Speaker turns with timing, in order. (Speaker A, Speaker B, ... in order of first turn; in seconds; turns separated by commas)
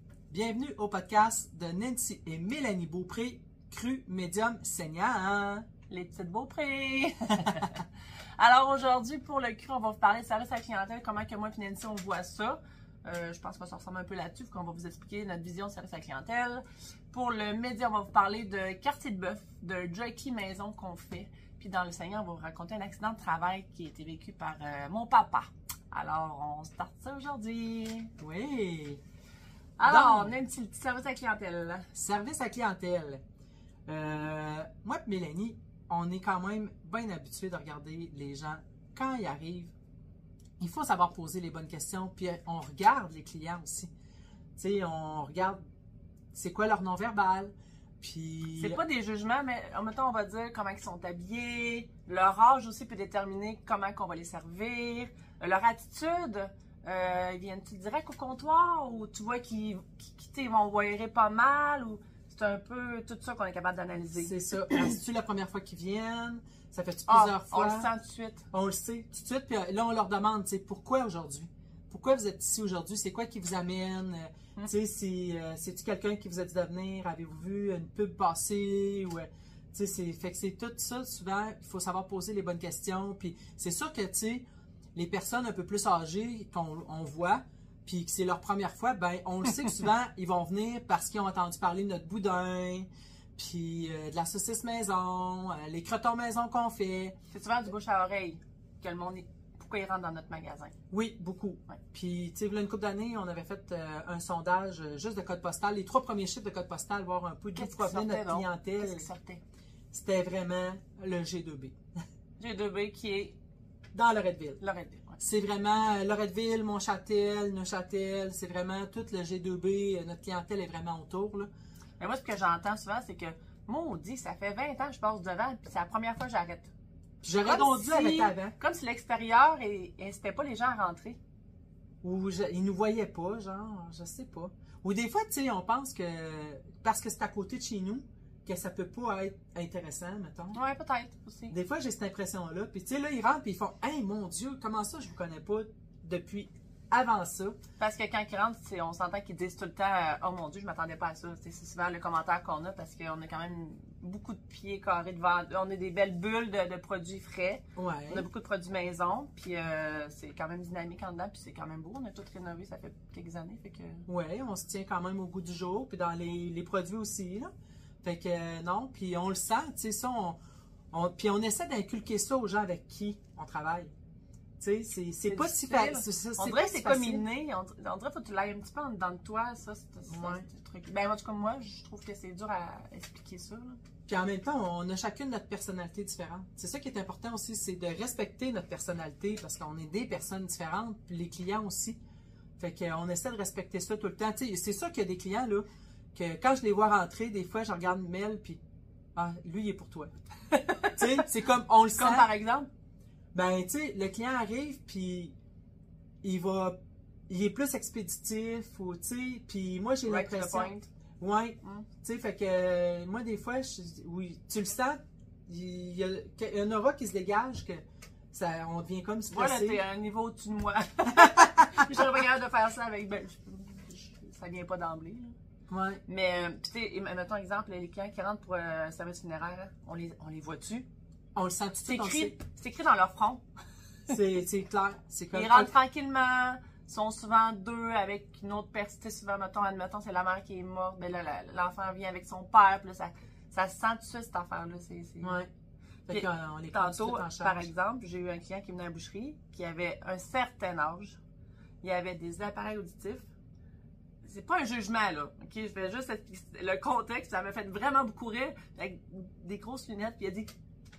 Speaker A: 0.3-5.7, Speaker B: 5.9-7.8, Speaker B: 8.4-28.1, Speaker A: 28.2-29.0, Speaker B: 29.8-31.9, Speaker A: 29.8-30.3, Speaker A: 31.9-33.2, Speaker A: 33.9-39.7, Speaker A: 40.6-43.9, Speaker A: 44.6-45.6, Speaker A: 46.3-48.8, Speaker B: 48.6-64.3, Speaker A: 64.2-67.9, Speaker B: 67.1-68.4, Speaker A: 68.5-97.2, Speaker B: 97.3-100.7, Speaker A: 100.9-109.1, Speaker B: 107.5-109.4, Speaker A: 109.9-111.8, Speaker B: 112.4-113.3, Speaker A: 113.9-114.6, Speaker B: 114.6-115.2, Speaker A: 115.2-121.5, Speaker B: 122.0-126.7, Speaker A: 127.2-128.6, Speaker B: 127.4-131.2, Speaker A: 132.0-140.6, Speaker B: 140.5-141.5, Speaker A: 141.5-147.6, Speaker B: 147.8-164.1, Speaker A: 157.8-158.2, Speaker A: 164.1-167.5, Speaker A: 168.0-170.4, Speaker A: 170.9-173.9, Speaker A: 174.6-177.2, Speaker B: 175.3-183.8, Speaker A: 180.1-180.5, Speaker A: 184.1-192.0, Speaker A: 192.6-198.6, Speaker A: 199.2-200.1, Speaker B: 200.5-201.2, Speaker A: 200.9-202.3, Speaker B: 202.0-202.7, Speaker A: 203.3-205.3, Speaker A: 206.2-206.8, Speaker A: 207.3-219.8, Speaker B: 210.1-210.9, Speaker B: 219.3-225.3, Speaker A: 221.1-221.9, Speaker A: 225.7-226.0, Speaker B: 226.1-230.9, Speaker A: 231.3-232.3, Speaker B: 231.8-233.4, Speaker A: 234.1-235.7, Speaker B: 235.3-245.3, Speaker A: 245.2-245.5, Speaker A: 246.1-247.7, Speaker B: 246.1-251.2, Speaker B: 251.8-253.2, Speaker B: 254.2-260.5